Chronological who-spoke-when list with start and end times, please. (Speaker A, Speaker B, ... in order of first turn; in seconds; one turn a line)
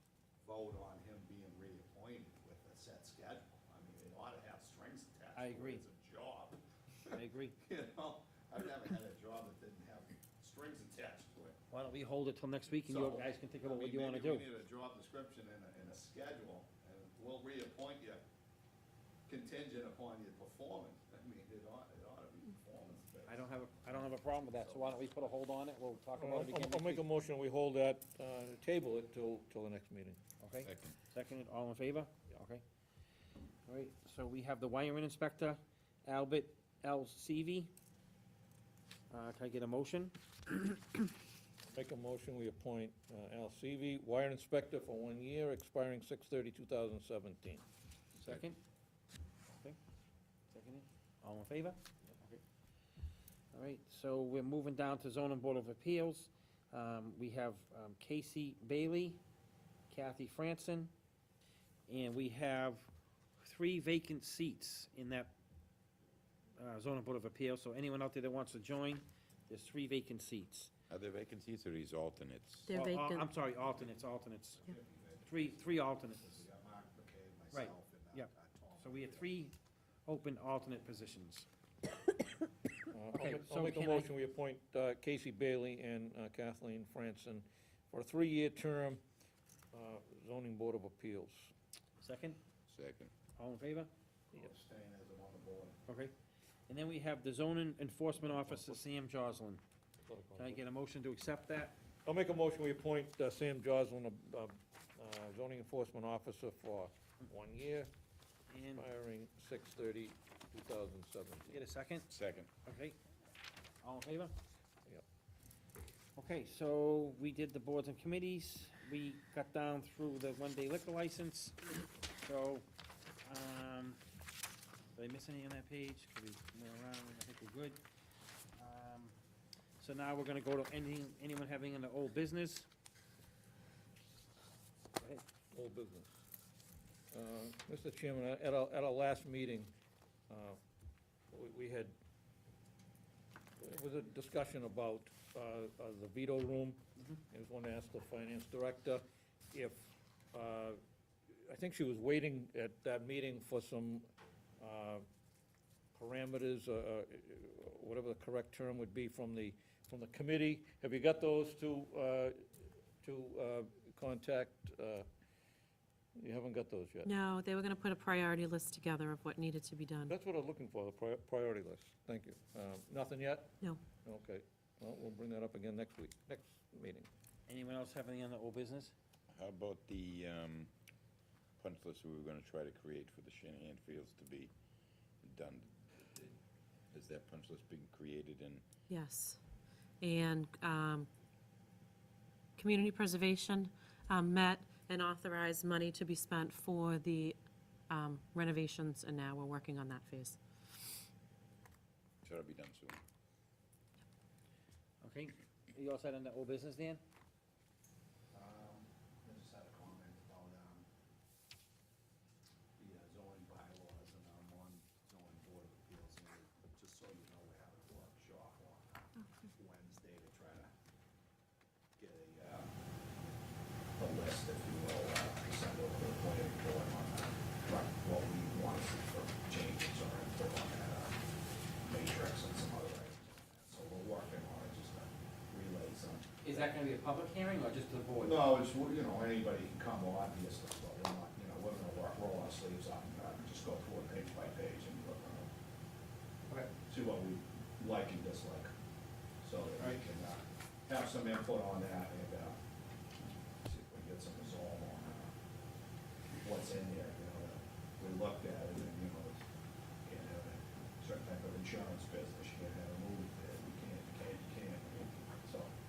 Speaker A: 0.4-11.6
Speaker B: 5.3-5.8
Speaker B: 7.2-7.6
Speaker B: 11.7-14.5
Speaker A: 12.9-18.2
Speaker A: 19.3-25.3
Speaker B: 23.3-27.1
Speaker C: 26.2-30.2
Speaker B: 30.4-32.6
Speaker D: 30.6-30.9
Speaker B: 33.7-37.7
Speaker B: 39.1-40.8
Speaker C: 41.7-47.6
Speaker B: 48.2-48.6
Speaker B: 49.5-49.8
Speaker B: 50.5-52.4
Speaker B: 53.5-59.2
Speaker B: 59.9-60.9
Speaker B: 61.9-62.9
Speaker B: 63.4-65.3
Speaker B: 66.6-70.7
Speaker D: 70.9-72.7
Speaker E: 72.7-73.3
Speaker B: 72.7-74.7
Speaker A: 73.7-73.9
Speaker A: 74.5-79.3
Speaker B: 75.2-76.4
Speaker B: 77.5-79.5
Speaker B: 80.1-81.5
Speaker C: 82.9-89.0
Speaker B: 83.1-84.1
Speaker C: 89.7-91.5
Speaker B: 92.0-92.4
Speaker D: 92.7-93.1
Speaker B: 93.4-93.9
Speaker A: 94.3-95.8
Speaker B: 95.9-96.1
Speaker B: 96.7-99.6
Speaker C: 98.2-98.8
Speaker C: 100.1-100.6
Speaker B: 100.3-101.8
Speaker C: 102.1-107.9
Speaker B: 108.5-108.9
Speaker C: 108.7-111.6
Speaker B: 111.5-112.1
Speaker D: 112.1-112.5
Speaker B: 112.7-113.0
Speaker B: 113.8-114.3
Speaker B: 116.2-122.7
Speaker B: 123.2-124.0
Speaker B: 125.0-127.8
Speaker B: 128.6-129.1
Speaker B: 129.8-132.7
Speaker B: 135.0-135.2
Speaker C: 135.5-136.2
Speaker C: 137.1-139.7
Speaker C: 140.3-140.6
Speaker C: 141.3-142.0
Speaker C: 143.6-150.8
Speaker C: 151.4-154.1
Speaker C: 154.6-155.1
Speaker C: 155.9-162.4
Speaker C: 163.0-165.1
Speaker C: 166.2-167.1
Speaker E: 167.0-170.1
Speaker C: 170.1-177.1
Speaker B: 177.5-178.9
Speaker D: 179.3-180.7
Speaker D: 181.6-184.5
Speaker D: 185.2-186.3
Speaker D: 186.9-188.6
Speaker E: 188.9-189.4
Speaker E: 190.0-191.1
Speaker E: 192.6-197.4
Speaker E: 197.9-200.4
Speaker D: 202.2-203.0
Speaker B: 205.0-207.0
Speaker A: 208.3-210.9
Speaker A: 212.8-220.7
Speaker A: 222.0-222.7
Speaker A: 224.0-231.2
Speaker A: 231.8-236.6
Speaker B: 236.4-238.5
Speaker A: 238.2-245.5
Speaker A: 246.9-248.7
Speaker A: 249.4-252.6
Speaker A: 253.6-255.3
Speaker A: 256.4-259.4
Speaker A: 260.1-265.7